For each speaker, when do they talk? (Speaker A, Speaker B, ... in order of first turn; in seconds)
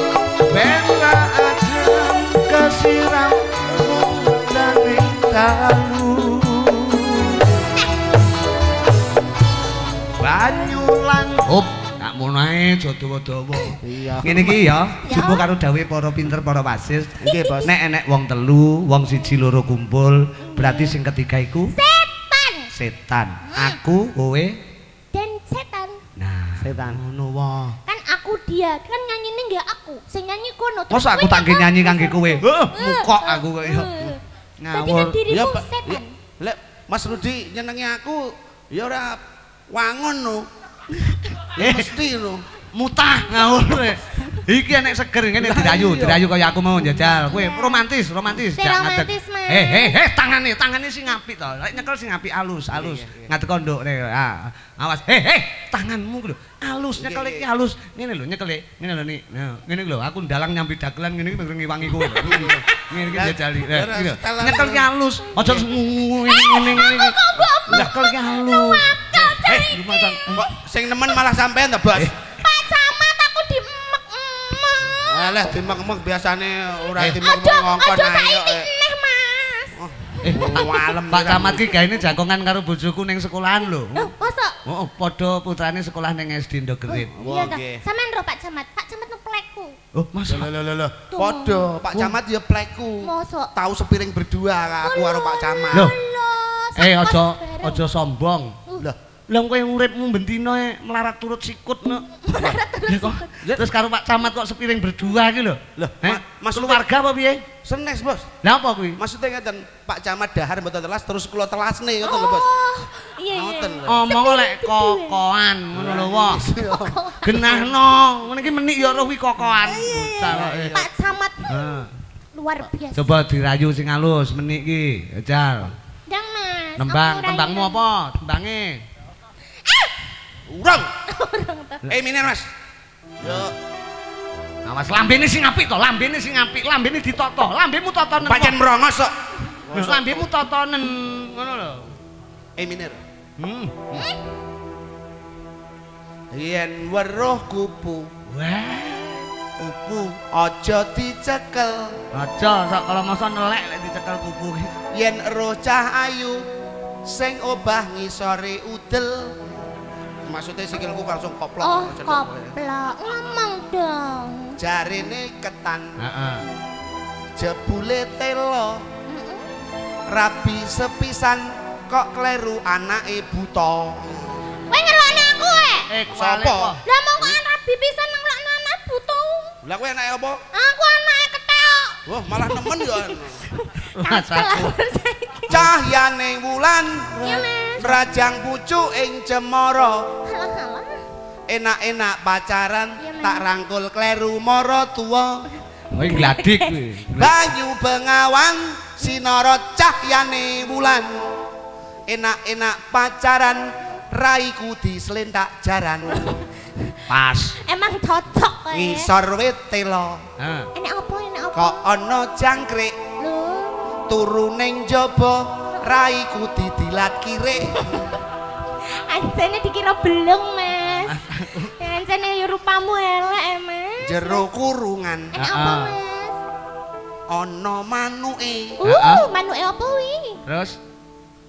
Speaker A: 0.5-7.4, 10.2-21.7, 22.7-24.6, 26.2-27.8, 30.9-33.9, 34.6-35.2, 41.6-41.9, 42.7-70.4, 80.2-84.1, 84.7-87.1, 89.9-90.5, 96.8-98.6, 99.3-102.2, 102.9-107.5, 108.4-109.0, 113.8-116.4, 117.2-120.8, 121.5-121.9, 122.9-125.8, 126.8-128.8, 133.2-133.5, 134.6-138.6, 139.7-141.9, 143.4-144.1, 148.3-150.2, 152.1-154.7, 166.0-166.4, 175.9-176.8, 183.9-184.7, 195.9-197.4, 207.1-207.5, 210.4-210.7, 221.1-221.7, 225.4-225.9, 228.8-229.2, 230.4-230.8
Speaker B: 13.8-14.7, 17.2-17.7, 26.6-27.0, 35.3-40.5, 41.5-42.4, 45.4-46.2, 52.7-53.3, 57.0-57.4, 62.2-65.7, 70.3-72.1, 74.9-78.7, 79.8-81.7, 87.2-87.8, 90.3-95.9, 105.8-106.8, 107.6-108.3, 109.0-112.5, 113.3-114.0, 115.7-117.5, 120.3-120.9, 130.5-130.9, 131.9-132.5, 133.2-133.5, 138.2-140.3, 142.6-143.0, 146.3-148.1, 150.3-152.0, 154.9-156.4, 157.1-159.3, 160.3-162.6, 164.6-166.0, 167.3-168.8, 170.1-174.4, 176.1-177.3, 179.6-180.4, 182.1-183.4, 185.5-190.1, 191.5-195.4, 197.1-201.2, 202.1-206.4, 208.7-210.3, 211.5-212.9, 214.1-218.1, 224.0-225.4, 227.3-228.8
Speaker C: 15.0-15.4, 17.2-17.7, 20.4-20.9, 21.7-22.7, 23.5-23.8, 25.1-26.0, 27.9-34.2, 34.7-36.1, 47.2-47.8, 48.6-50.0, 66.2-70.5, 72.3-75.5, 77.0-80.9, 83.9-84.5, 86.9-89.7, 91.1-91.6, 93.0-93.5, 94.8-97.8, 102.2-103.3, 112.0-115.2, 116.5-117.7, 119.7-121.5, 122.3-123.2, 126.1-127.8, 129.7-129.9, 131.1-131.9, 143.9-144.2, 161.6-164.6, 169.1-169.5, 174.7-175.9, 176.8-179.6, 180.5-185.7, 187.2-188.0, 190.2-191.0, 193.0-193.4, 196.0-196.7, 207.7-209.1, 210.8-211.8, 213.2-213.8, 217.8-218.1, 218.8-221.2, 221.8-224.4, 225.3-226.3, 228.8-230.4